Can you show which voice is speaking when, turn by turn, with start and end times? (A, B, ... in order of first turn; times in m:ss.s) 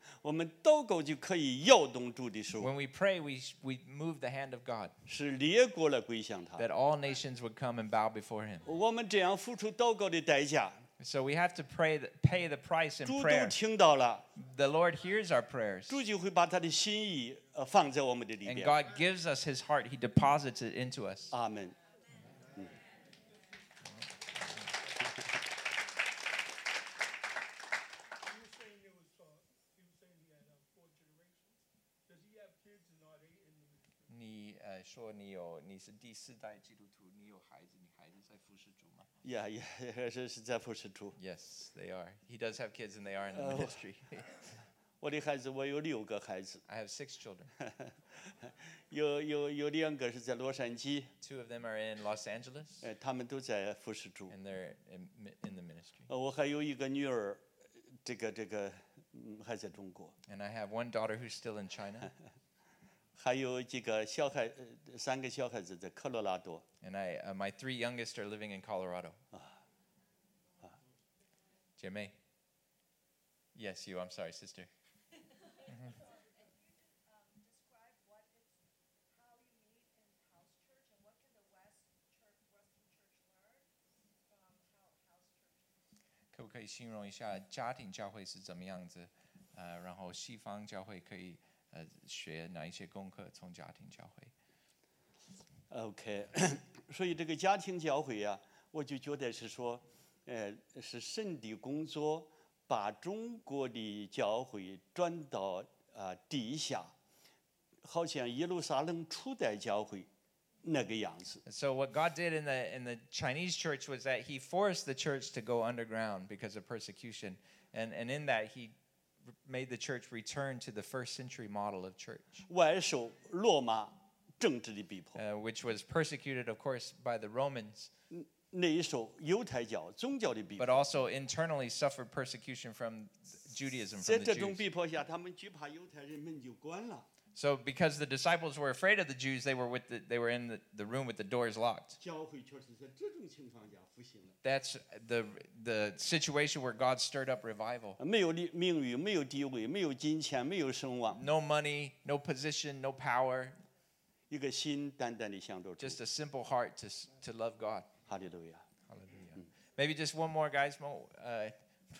0:00.2-0:02.7 A
0:02.6-0:04.9 B
0:05.0-0:06.7 A
0:06.6-0:08.6 B
0:08.6-0:10.8 A
0:11.0-0:13.6 B
0:13.0-0:14.2 A
0:14.4-0:16.0 B
0:15.9-0:18.8 A
0:18.4-0:21.3 B
0:21.3-0:21.8 A
0:22.4-0:23.5 C
0:23.8-0:24.7 B
0:28.2-0:34.1 C
0:34.1-0:39.1 B
0:39.2-0:41.2 A
0:41.2-0:44.5 B
0:43.3-0:43.8 A
0:45.0-0:46.6 A
0:46.7-0:47.5 B
0:47.6-0:47.9 A
0:48.9-0:51.1 A
0:51.2-0:52.9 B
0:52.8-0:54.3 A
0:54.3-0:56.1 B
0:56.1-0:57.4 A
0:58.0-1:00.1 A
1:00.3-1:02.1 B
1:03.2-1:06.6 A
1:06.8-1:09.2 B
1:11.8-1:12.1 B
1:13.5-1:14.7 B
1:15.6-1:23.7 D
1:24.3-1:25.9 D
1:26.3-1:34.3 B
1:35.7-1:46.9 A
1:47.8-1:50.1 A
1:50.6-1:51.4 A
1:51.4-1:58.7 B
1:59.4-2:02.5 B
2:02.5-2:05.2 A
2:05.2-2:07.9 B
2:08.1-2:10.8 A
2:10.6-2:14.6 B
2:13.9-2:17.1 A
2:17.3-2:22.0 B
2:22.0-2:24.4 A
2:24.4-2:28.0 B
2:28.0-2:31.2 A
2:31.1-2:33.6 B
2:34.3-2:36.0 A
2:35.8-2:37.9 B
2:38.1-2:38.6 A
2:38.9-2:41.6 B